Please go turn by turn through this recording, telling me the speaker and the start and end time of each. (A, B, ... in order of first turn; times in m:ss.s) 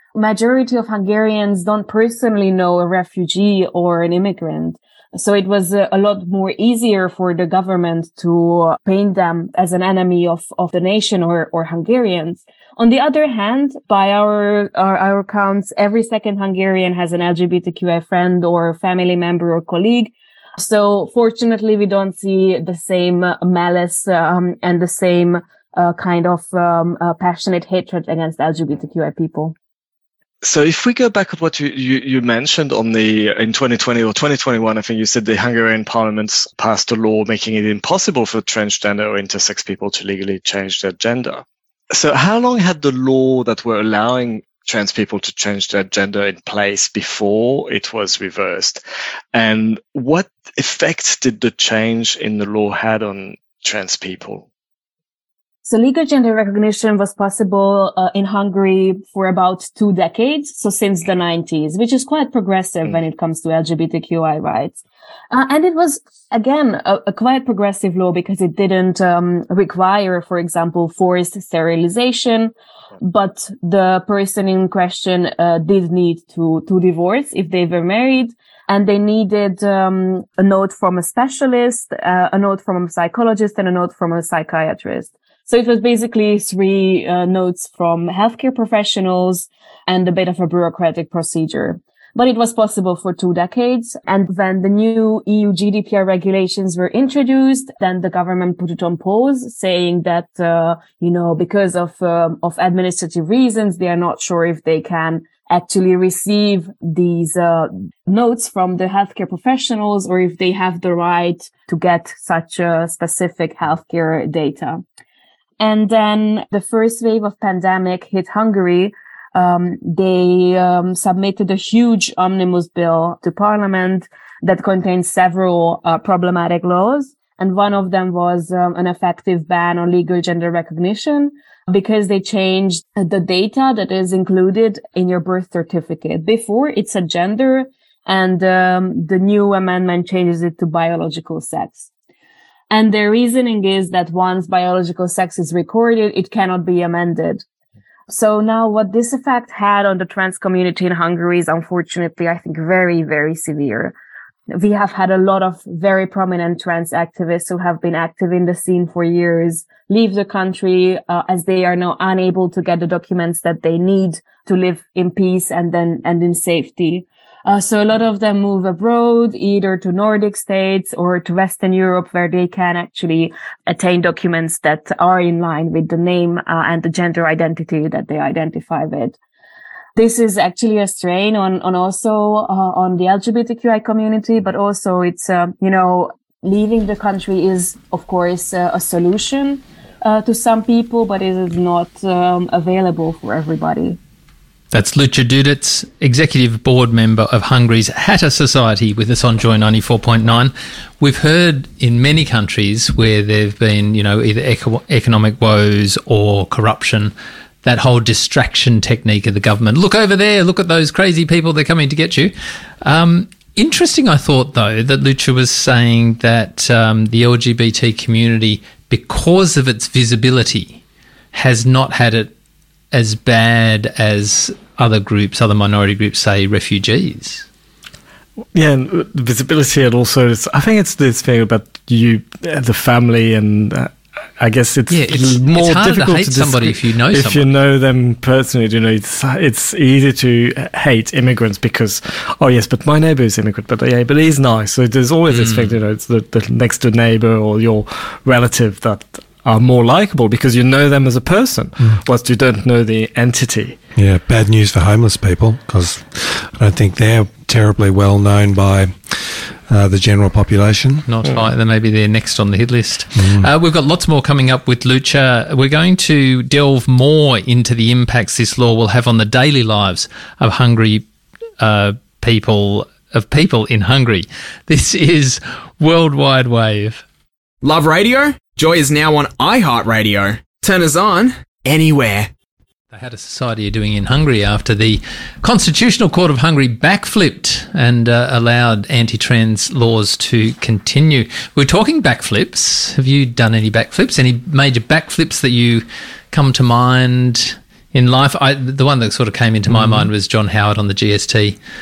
0:00.1-0:29.5 A
0:30.4-0:48.8 B
0:49.3-0:54.5 B
0:55.6-1:54.8 A
1:55.6-2:21.9 A
2:22.7-2:27.4 A
2:28.1-2:33.9 A
2:34.5-2:59.2 A
3:00.0-3:14.0 A
3:14.7-3:40.8 C
3:41.3-3:42.3 C
3:42.9-3:47.4 C
3:48.5-4:13.8 D
3:54.9-3:57.5 C
4:05.3-4:05.8 C
4:14.0-4:21.1 E
4:21.1-4:31.0 C
4:23.2-4:23.5 E
4:31.6-4:37.0 C
4:37.6-4:42.3 F
4:42.9-5:01.6 C
4:59.7-5:00.1 D